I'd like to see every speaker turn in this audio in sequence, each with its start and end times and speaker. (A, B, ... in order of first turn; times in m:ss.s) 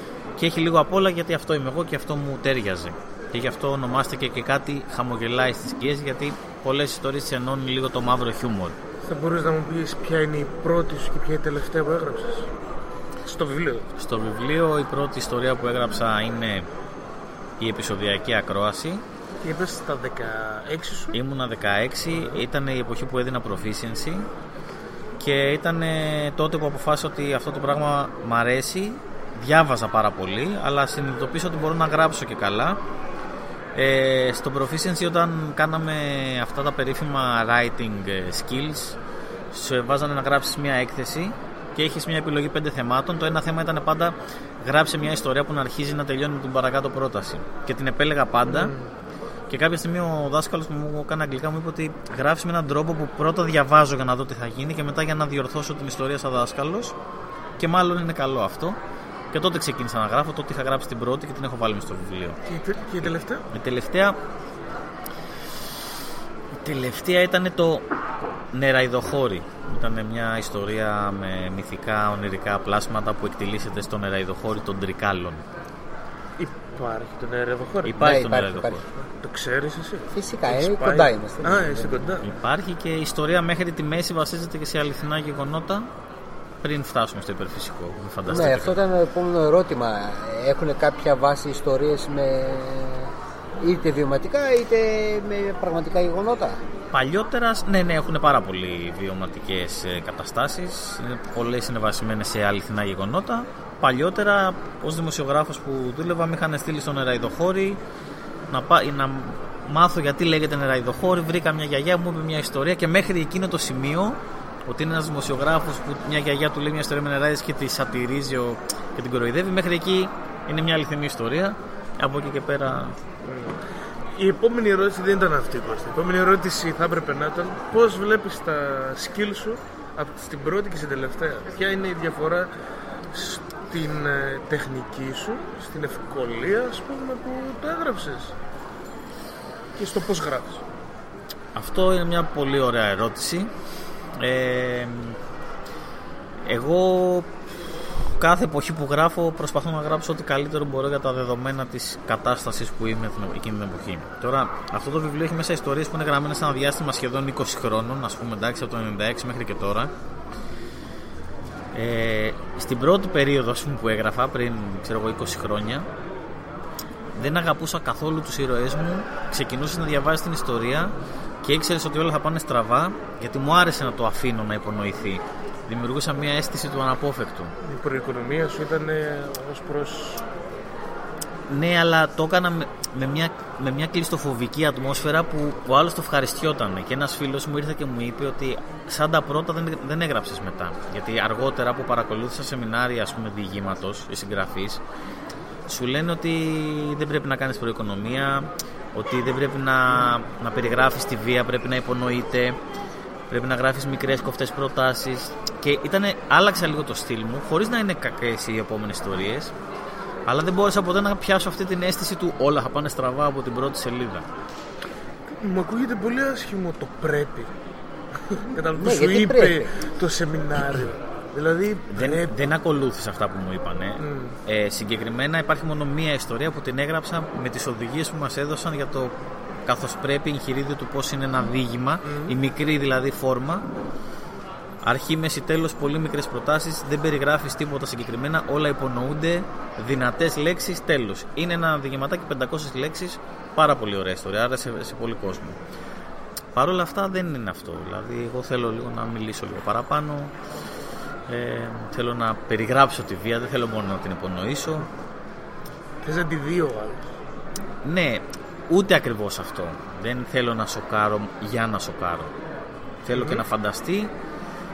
0:00.4-0:08.8 A
0:09.0-0:12.5 B
0:13.2-0:13.9 B
0:14.0-0:16.7 A
0:17.6-0:19.0 A
0:19.4-0:21.2 B
0:21.1-0:24.2 A
0:25.2-0:32.8 A
0:33.7-0:39.0 A
0:39.5-0:48.7 A
0:48.4-0:48.9 B
0:49.5-0:56.9 A
0:57.6-0:58.8 A
0:59.3-1:02.4 A
1:02.5-1:03.4 B
1:03.5-1:04.2 A
1:06.5-1:07.8 A
1:08.5-1:15.4 A
1:16.4-1:18.0 B
1:17.9-1:18.8 A
1:18.0-1:18.8 C
1:19.0-1:22.2 B
1:20.1-1:22.0 C
1:22.2-1:25.9 A
1:26.6-1:28.8 A
1:28.3-1:36.6 C
1:36.9-1:47.8 A
1:48.5-2:02.9 A
2:03.2-2:03.6 B
2:04.1-2:12.5 B
2:13.1-2:18.3 B
2:19.8-2:20.6 B
2:21.6-2:23.5 A
2:24.2-2:25.2 A
2:26.4-2:39.9 A
2:41.7-2:45.8 A
2:47.1-2:57.5 A
2:57.6-3:00.2 B
3:01.5-3:14.8 A
3:15.7-3:22.6 A
3:23.3-3:29.5 A
3:30.3-3:34.2 A
3:35.3-3:37.5 B
3:38.3-3:42.3 B
3:38.8-3:39.7 C
3:41.9-3:49.1 A
3:44.0-3:44.3 B
3:49.7-3:53.6 A
3:52.0-3:52.4 B
3:54.8-4:05.6 A
4:06.5-4:10.3 A
4:11.3-4:14.9 A
4:16.0-4:17.1 B
4:17.8-4:22.3 A
4:23.0-4:24.1 A
4:23.1-4:23.4 B